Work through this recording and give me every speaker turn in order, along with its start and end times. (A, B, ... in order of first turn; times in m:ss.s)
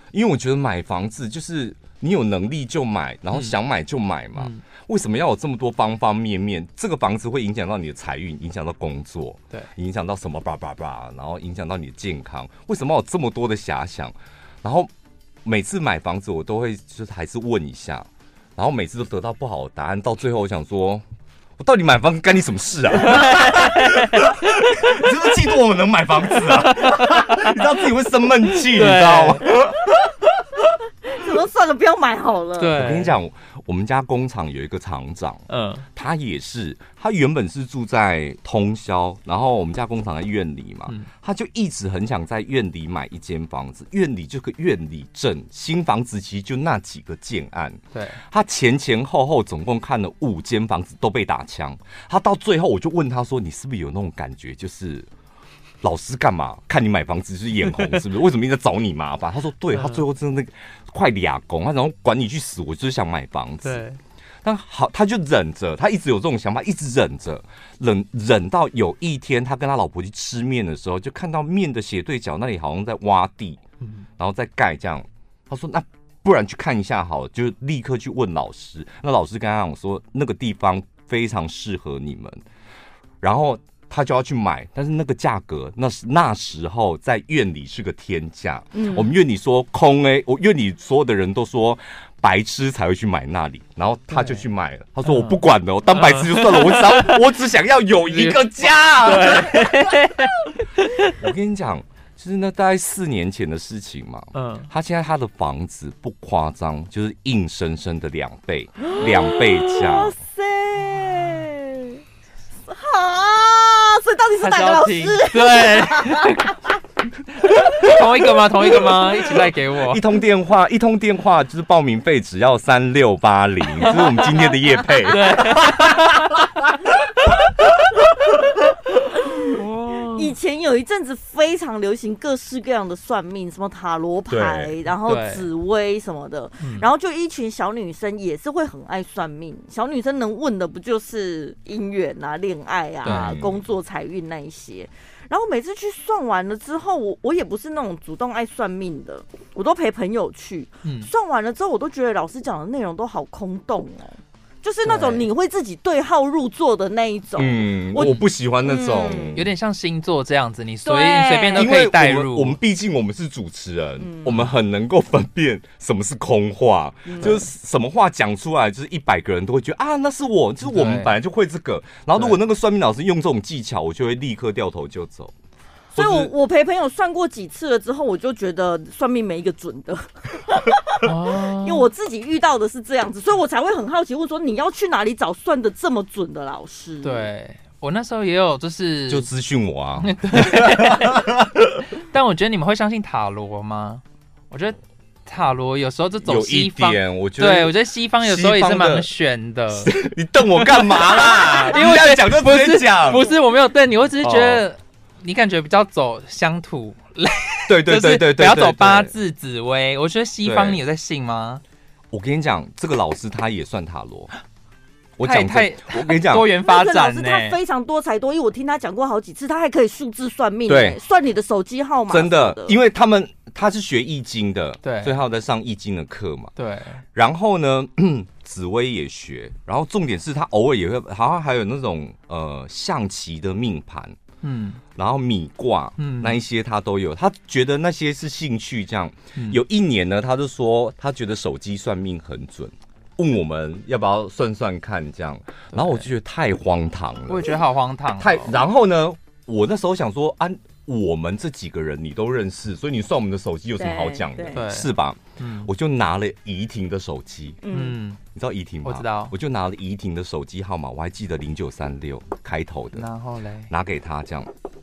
0:00.1-0:14.9 A
0:04.4-0:04.6 B
0:15.4-0:21.0 A
0:21.6-0:30.2 A
0:23.0-0:25.1 B
0:26.3-0:27.6 B
0:28.5-0:29.5 B
0:31.0-0:32.8 C
0:32.6-0:33.1 B
0:32.7-0:55.1 A
0:35.5-0:35.8 B
0:47.9-0:48.2 B
0:55.8-1:03.8 A
0:57.7-0:58.0 B
0:59.7-1:00.0 B
1:03.6-1:04.0 B
1:04.4-1:13.6 A
1:13.8-1:14.1 B
1:14.2-1:22.4 A
1:23.2-1:40.2 A
1:28.7-1:29.1 C
1:34.1-1:34.4 B
1:35.0-1:35.4 B
1:35.9-1:37.2 B
1:38.0-1:41.2 B
1:41.1-1:50.1 A
1:44.3-1:44.7 B
1:48.8-1:52.0 C
1:50.8-1:51.4 B
1:52.7-1:56.6 C
1:54.4-1:56.6 B
1:57.3-2:00.0 B
1:58.7-1:59.1 C
1:59.7-2:06.9 A
2:03.9-2:05.3 C
2:05.0-2:06.4 B
2:09.4-2:10.3 B
2:10.0-2:39.4 C
2:14.3-2:14.7 A
2:15.0-2:15.5 B
2:16.6-2:16.9 B
2:23.0-2:23.3 B
2:23.0-2:23.6 A
2:30.8-2:31.1 B
2:34.8-2:35.2 B
2:37.4-2:39.5 A
2:38.0-2:38.2 B
2:39.3-2:42.6 B
2:40.8-2:41.7 C
2:41.5-2:55.3 A
2:44.0-2:44.4 C
2:47.1-2:47.4 C
2:50.6-2:51.1 B
2:55.9-2:56.3 A
2:55.9-3:07.3 C
3:01.0-3:01.9 B
3:07.0-3:09.3 B
3:09.1-3:11.9 A
3:10.0-3:11.3 B
3:12.0-3:19.9 B
3:16.2-3:19.1 A
3:19.7-3:23.3 A
3:20.6-3:31.6 B
3:24.2-3:24.6 A
3:27.7-3:29.1 A
3:30.4-3:30.8 A
3:32.1-3:34.3 A
3:35.2-3:36.5 A
3:35.2-3:37.6 B
3:36.6-3:42.8 C
3:40.7-3:41.0 A
3:42.1-3:46.5 A
3:44.8-3:45.1 B
3:46.6-3:47.0 B
3:47.1-3:54.2 A
3:54.4-3:54.8 B
3:54.9-4:07.6 A
3:56.0-3:56.4 B
3:59.4-3:59.6 B
4:05.7-4:06.0 B
4:07.3-4:08.6 B
4:08.2-4:17.6 A
4:13.8-4:14.6 C
4:14.5-4:15.7 B
4:17.6-4:18.0 C
4:17.7-4:18.2 B
4:18.3-4:23.1 A
4:18.8-4:19.3 B
4:22.9-4:23.7 B
4:23.7-4:24.5 A